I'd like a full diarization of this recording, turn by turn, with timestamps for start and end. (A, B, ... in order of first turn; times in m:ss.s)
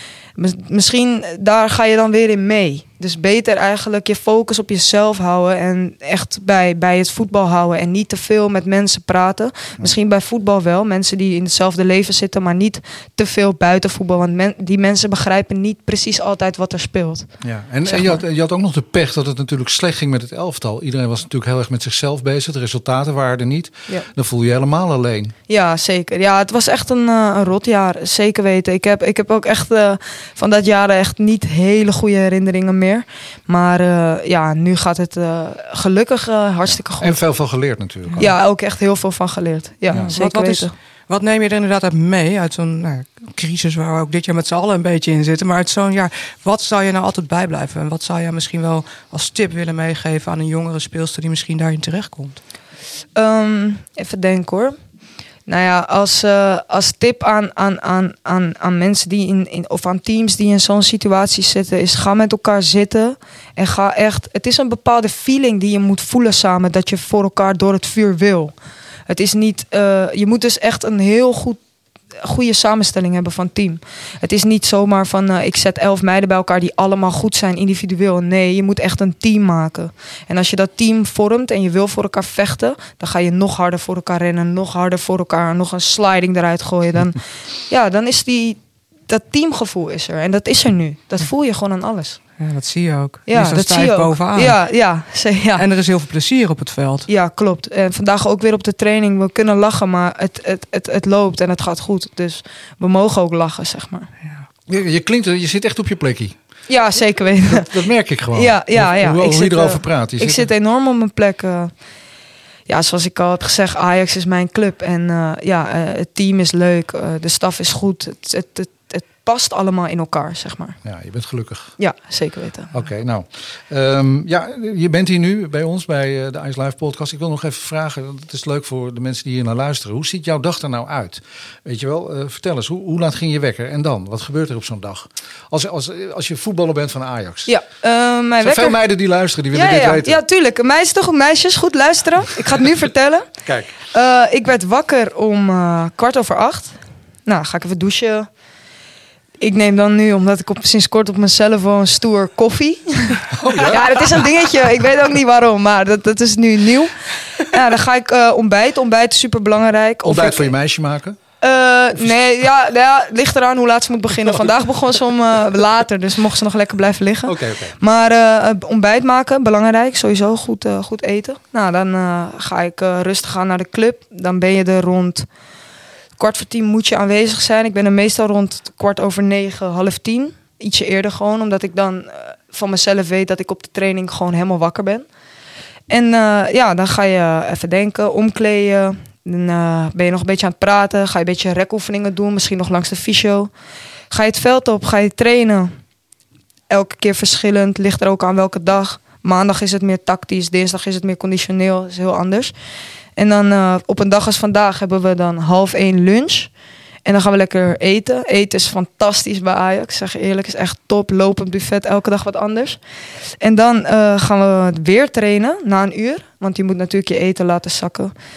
0:00.4-0:18.2 A
0:17.4-0:25.3 B
0:25.5-0:37.2 A
0:36.6-0:38.3 B
0:38.2-0:40.7 A
0:40.0-0:52.4 C
0:53.2-0:54.8 A
0:55.5-1:08.5 A
1:09.1-1:11.6 A
1:12.2-1:32.2 A
1:32.4-1:34.6 C
1:33.3-1:35.6 A
1:35.6-1:37.1 C
1:37.1-1:44.1 A
1:44.7-1:46.4 B
1:46.7-1:47.7 A
1:47.2-1:50.5 B
1:48.3-1:51.7 A
1:52.7-2:00.8 A
2:00.8-2:01.8 B
2:01.8-2:02.7 A
2:02.7-2:17.5 B
2:17.5-2:18.8 A
2:18.4-2:20.2 B
2:19.5-2:23.3 A
2:23.4-2:23.7 B
2:23.9-2:28.3 A
2:29.4-2:40.5 A
2:33.3-2:34.1 B
2:40.0-2:41.2 B
2:41.4-2:55.3 A
2:47.2-2:47.8 B
2:56.2-3:05.1 A
3:05.9-3:13.5 A
3:14.1-3:15.7 A
3:16.7-3:22.5 A
3:23.2-3:26.5 A
3:27.0-3:32.8 A
3:33.4-3:38.1 A